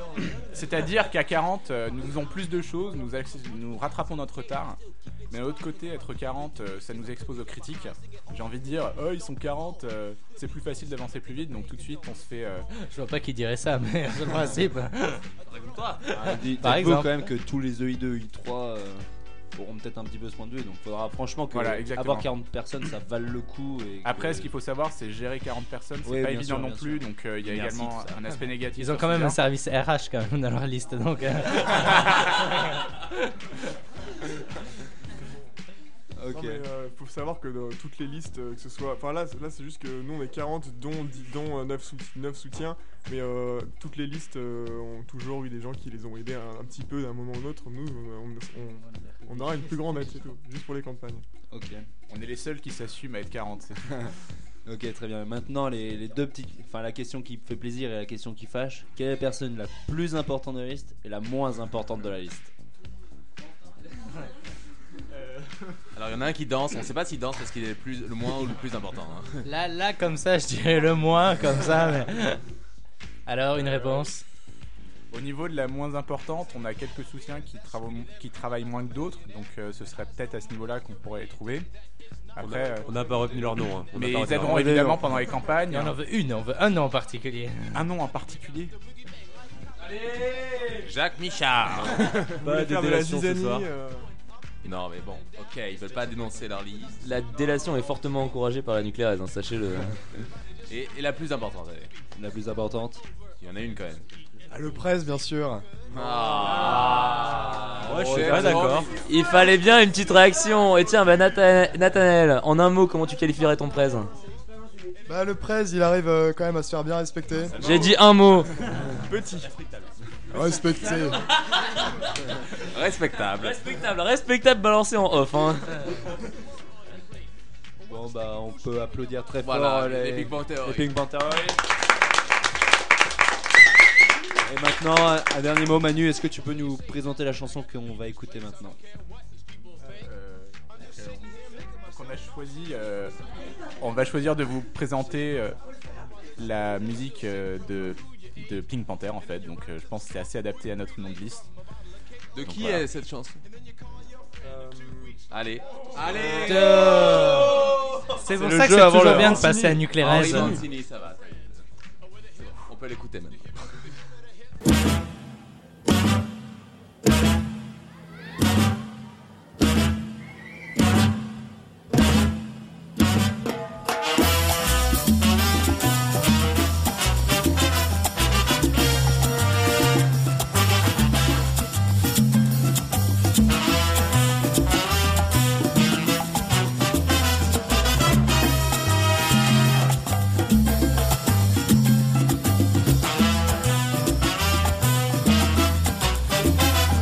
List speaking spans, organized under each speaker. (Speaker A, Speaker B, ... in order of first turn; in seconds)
Speaker A: 0.4-12.7, 21.5-22.3, 24.0-29.4, 52.1-53.9, 75.1-81.7, 82.3-83.0, 83.9-86.0, 87.7-88.7, 139.9-141.3, 141.8-143.2, 143.8-145.6, 146.4-151.5, 152.5-152.8
Speaker B: 12.8-15.2, 16.6-17.3, 28.8-32.9, 69.4-72.4, 73.3-74.2, 85.7-87.8, 156.4-157.7, 158.2-160.6
Speaker C: 15.5-16.5, 66.0-69.4, 90.7-92.3, 94.6-97.0, 100.7-101.9, 103.4-104.0, 105.9-108.9, 122.7-123.6, 129.4-130.9, 152.3-153.4, 155.3-157.6, 159.9-161.6, 162.4-163.6
Speaker D: 16.1-24.5, 26.0-28.3, 36.2-36.6, 51.5-51.9, 54.7-62.5, 84.4-85.1, 102.2-103.0, 107.8-108.8, 127.9-131.6, 134.4-138.8, 158.3-160.6
Speaker E: 36.3-51.2, 92.4-94.1, 119.0-119.5, 154.4-155.2
Speaker F: 82.4-84.7, 92.4-93.7, 107.9-108.9
Speaker G: 97.0-100.0, 108.1-114.1, 117.6-118.5, 123.4-125.8
Speaker H: 104.5-105.7, 115.1-117.7, 120.3-121.2